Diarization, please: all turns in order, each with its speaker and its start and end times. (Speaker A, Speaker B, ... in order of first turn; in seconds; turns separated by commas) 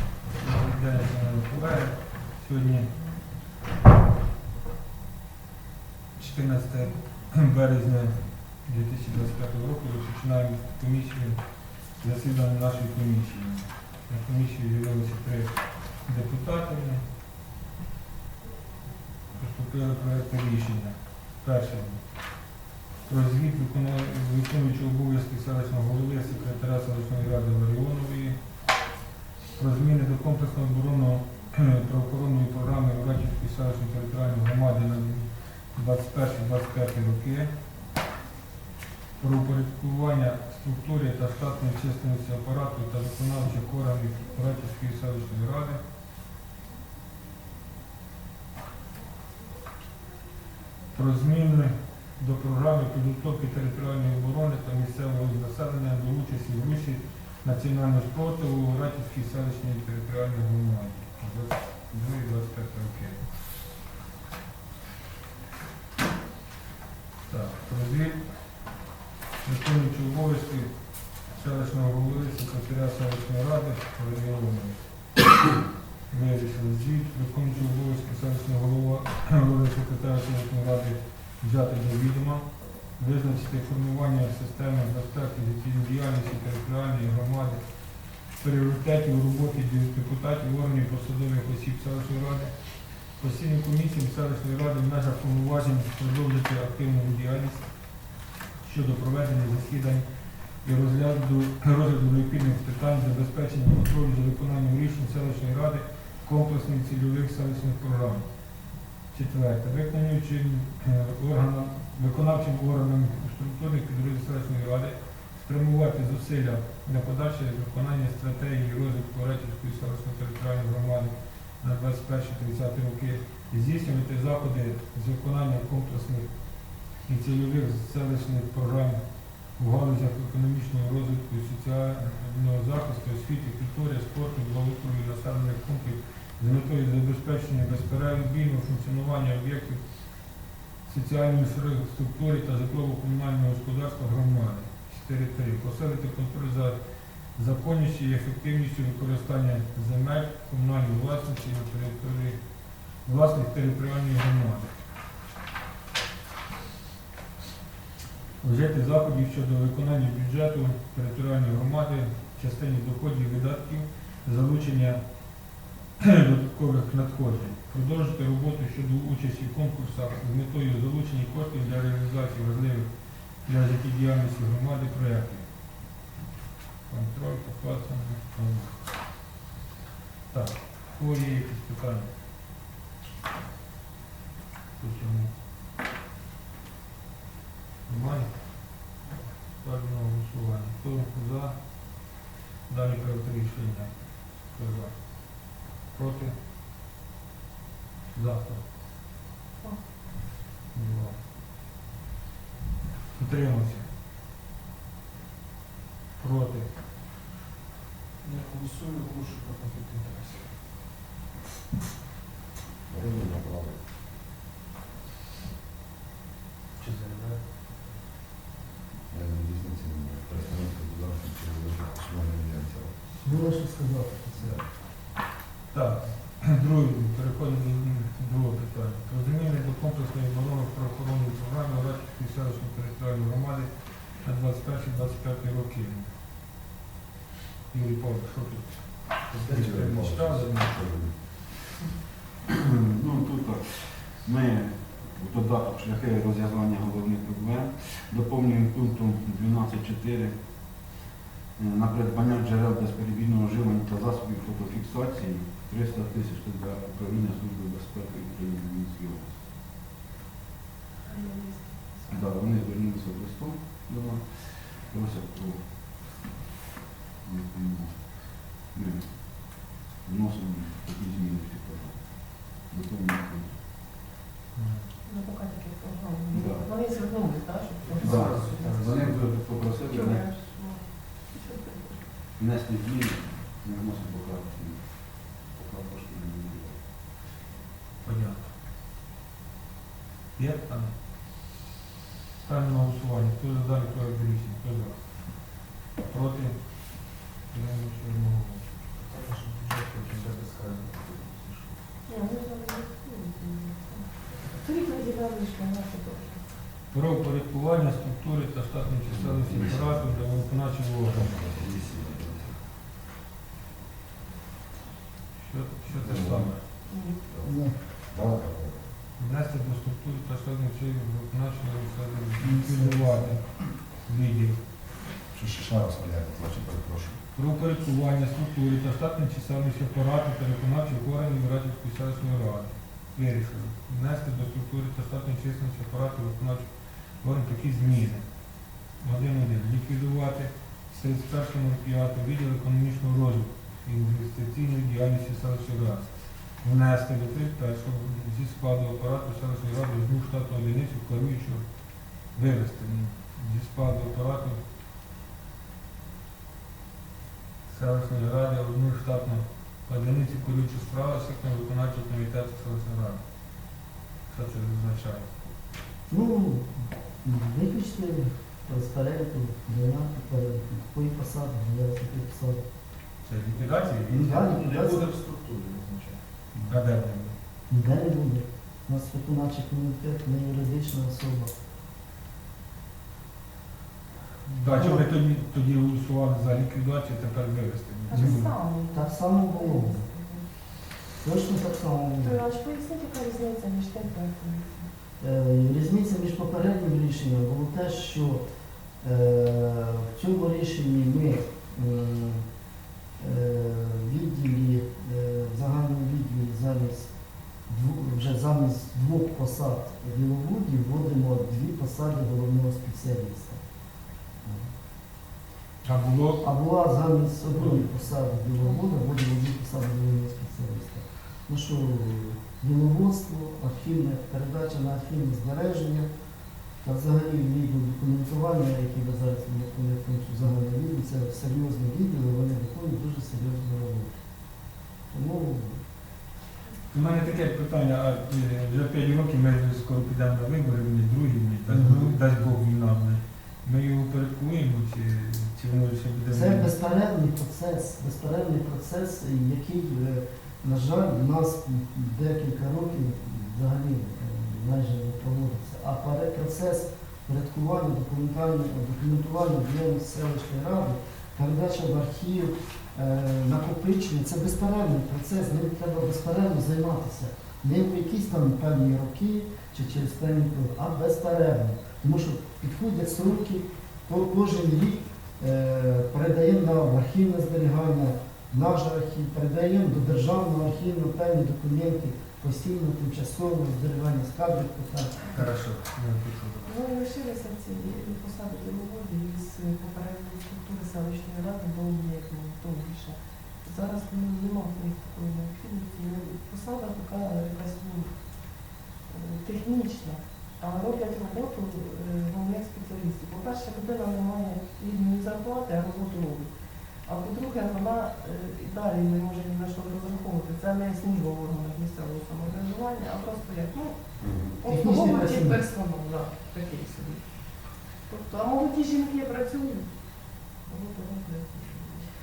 Speaker A: 0.3-3.0, Speaker A: 6.2-17.0, Speaker A: 19.3-22.3, Speaker A: 23.1-28.4, Speaker A: 29.6-37.5, Speaker A: 39.2-45.8, Speaker A: 50.9-63.2, Speaker A: 67.3-68.5, Speaker A: 69.4-74.8, Speaker A: 76.1-87.6, Speaker A: 88.2-100.1, Speaker A: 100.6-108.3, Speaker A: 109.1-126.3, Speaker A: 126.9-129.0, Speaker A: 129.6-139.8, Speaker A: 140.8-146.8, Speaker A: 147.3-152.4, Speaker A: 153.1-154.7, Speaker A: 158.4-165.0, Speaker A: 166.0-172.9, Speaker A: 173.4-175.5, Speaker A: 176.9-178.8, Speaker A: 180.3-182.1, Speaker A: 184.8-185.3, Speaker A: 187.9-188.3, Speaker A: 189.6-191.6, Speaker A: 192.7-196.3, Speaker A: 198.1-198.6, Speaker A: 200.7-201.2, Speaker A: 203.2-203.9, Speaker A: 206.2-206.7, Speaker B: 208.3-210.3, Speaker C: 212.9-213.8, Speaker C: 219.1-223.0, Speaker D: 223.2-224.6, Speaker C: 224.4-224.7, Speaker A: 225.7-236.1, Speaker A: 237.7-240.8, Speaker C: 239.3-241.3, Speaker E: 242.5-250.4, Speaker E: 251.6-259.4, Speaker F: 261.1-262.3, Speaker E: 262.1-265.7, Speaker E: 267.2-273.6, Speaker A: 274.6-274.9, Speaker F: 275.1-278.9, Speaker E: 276.3-276.7, Speaker E: 278.0-280.3, Speaker F: 279.6-282.1, Speaker E: 282.4-286.8, Speaker A: 288.0-288.5, Speaker A: 290.4-291.0, Speaker A: 292.4-298.8, Speaker B: 299.1-301.6, Speaker F: 302.1-306.4, Speaker A: 306.9-311.4, Speaker C: 309.1-310.1, Speaker C: 311.1-312.6, Speaker A: 315.4-316.6, Speaker C: 315.9-318.9, Speaker F: 316.9-317.2, Speaker D: 317.4-317.8, Speaker A: 319.2-324.6, Speaker D: 322.4-323.5, Speaker C: 325.3-327.2, Speaker A: 327.4-336.7, Speaker A: 337.2-351.6, Speaker A: 352.3-354.6, Speaker A: 357.7-363.2, Speaker A: 364.3-365.3, Speaker D: 366.1-372.6, Speaker A: 373.2-374.4, Speaker D: 374.1-375.1, Speaker A: 376.7-377.4, Speaker D: 377.7-381.5, Speaker A: 384.5-388.5, Speaker D: 384.6-385.1, Speaker F: 388.1-390.5, Speaker D: 388.1-390.0, Speaker D: 391.2-392.4, Speaker F: 392.2-394.9, Speaker D: 395.2-398.4, Speaker D: 399.0-402.4, Speaker D: 403.2-407.1, Speaker D: 407.7-413.6, Speaker D: 414.4-414.7, Speaker A: 415.8-416.4, Speaker D: 416.4-426.1, Speaker D: 426.8-434.1, Speaker D: 435.1-435.8, Speaker A: 436.9-446.7, Speaker D: 441.7-442.2, Speaker D: 446.3-485.5, Speaker A: 485.3-486.7, Speaker F: 486.6-506.5, Speaker F: 507.1-522.1, Speaker C: 514.2-514.5, Speaker D: 514.6-515.6